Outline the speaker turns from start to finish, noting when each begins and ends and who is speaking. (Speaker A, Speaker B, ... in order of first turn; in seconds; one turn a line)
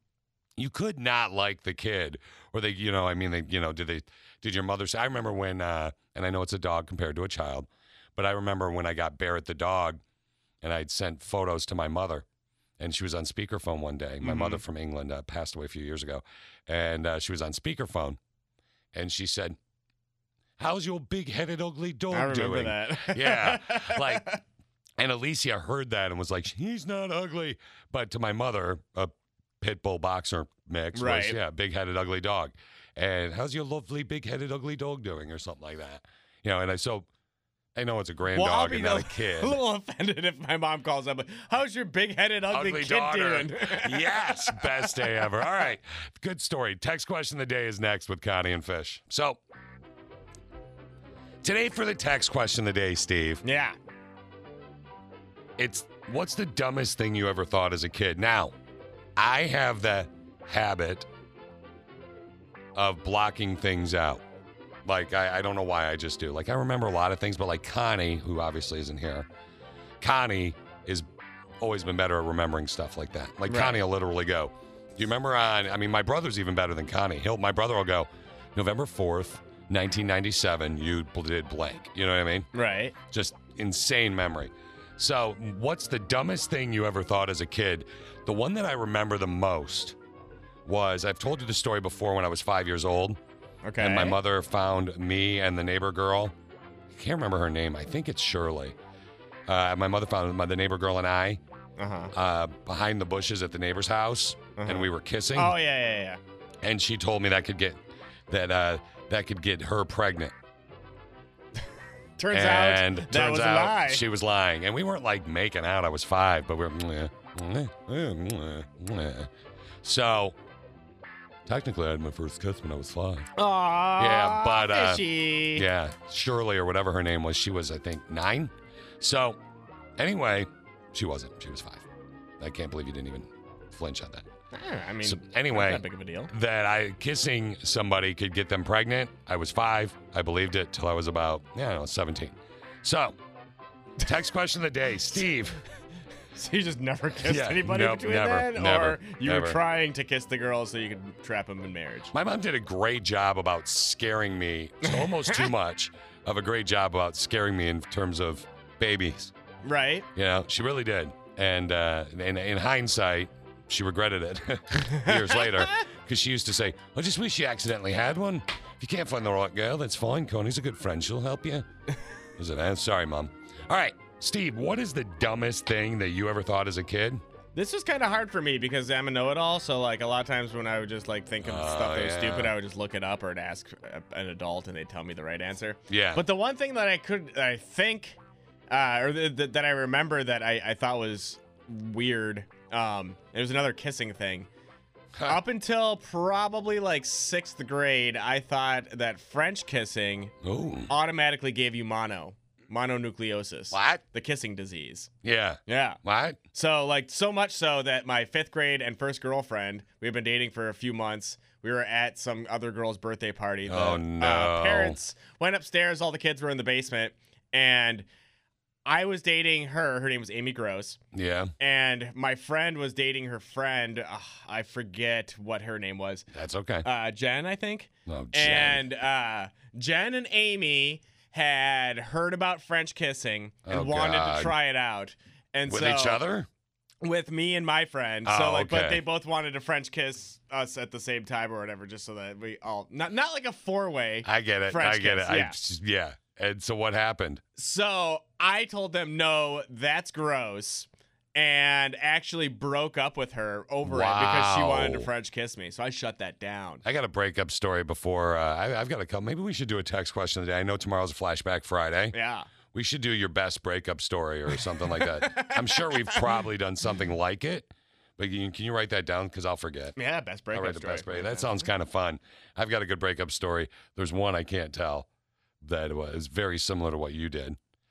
Speaker A: 0.6-10.0
Speaker A: 10.6-12.2
Speaker A: 12.8-18.2
Speaker B: 14.2-14.6
Speaker A: 18.9-19.6
Speaker A: 20.6-24.3
Speaker B: 22.1-24.4
Speaker A: 25.0-37.1
Speaker B: 30.9-31.4
Speaker A: 37.8-39.6
Speaker B: 38.3-45.7
Speaker A: 42.5-49.4
Speaker A: 51.4-53.4
Speaker B: 53.4-53.8
Speaker A: 55.6-58.5
Speaker A: 59.2-61.1
Speaker A: 62.8-64.2
Speaker A: 64.8-69.3
Speaker A: 70.0-71.1
Speaker A: 71.6-82.5
Speaker B: 73.5-73.8
Speaker B: 82.5-83.0
Speaker A: 83.1-90.0
Speaker A: 90.7-93.2
Speaker B: 93.6-94.2
Speaker A: 93.8-96.3
Speaker A: 96.9-98.8
Speaker A: 99.5-101.4
Speaker B: 101.8-102.1
Speaker A: 102.1-105.5
Speaker B: 104.6-106.2
Speaker A: 106.6-110.3
Speaker B: 112.2-114.0
Speaker A: 112.3-119.3
Speaker A: 119.8-120.4
Speaker A: 121.5-123.3
Speaker B: 123.4-125.7
Speaker A: 124.0-129.4
Speaker A: 130.0-131.9
Speaker A: 132.4-134.3
Speaker B: 134.5-136.3
Speaker A: 135.0-143.2
Speaker A: 144.1-145.6
Speaker B: 146.3-152.1
Speaker A: 147.2-149.6
Speaker A: 152.1-159.3
Speaker B: 154.8-155.5
Speaker B: 159.6-160.1
Speaker A: 160.2-171.7
Speaker B: 164.8-165.8
Speaker A: 172.4-177.2
Speaker B: 177.6-188.2
Speaker A: 181.4-182.6
Speaker A: 185.9-186.2
Speaker B: 188.7-194.5
Speaker A: 195.2-195.4
Speaker B: 195.3-200.3
Speaker A: 200.4-200.9
Speaker B: 200.9-205.1
Speaker A: 203.7-204.0
Speaker A: 205.2-206.4
Speaker B: 205.7-206.0
Speaker B: 206.5-218.1
Speaker A: 213.7-215.0
Speaker B: 218.8-221.0
Speaker A: 221.1-221.5
Speaker B: 221.6-226.3
Speaker A: 226.3-226.9
Speaker B: 226.8-236.2
Speaker A: 228.1-228.8
Speaker A: 233.7-234.6
Speaker A: 235.7-236.5
Speaker B: 237.0-245.6
Speaker A: 238.2-239.0
Speaker A: 244.2-247.4
Speaker B: 247.6-256.8
Speaker A: 253.8-255.1
Speaker A: 256.8-262.1
Speaker B: 262.1-262.5
Speaker A: 262.7-270.0
Speaker B: 264.5-266.4
Speaker B: 270.0-271.7
Speaker A: 270.5-275.1
Speaker A: 275.6-277.6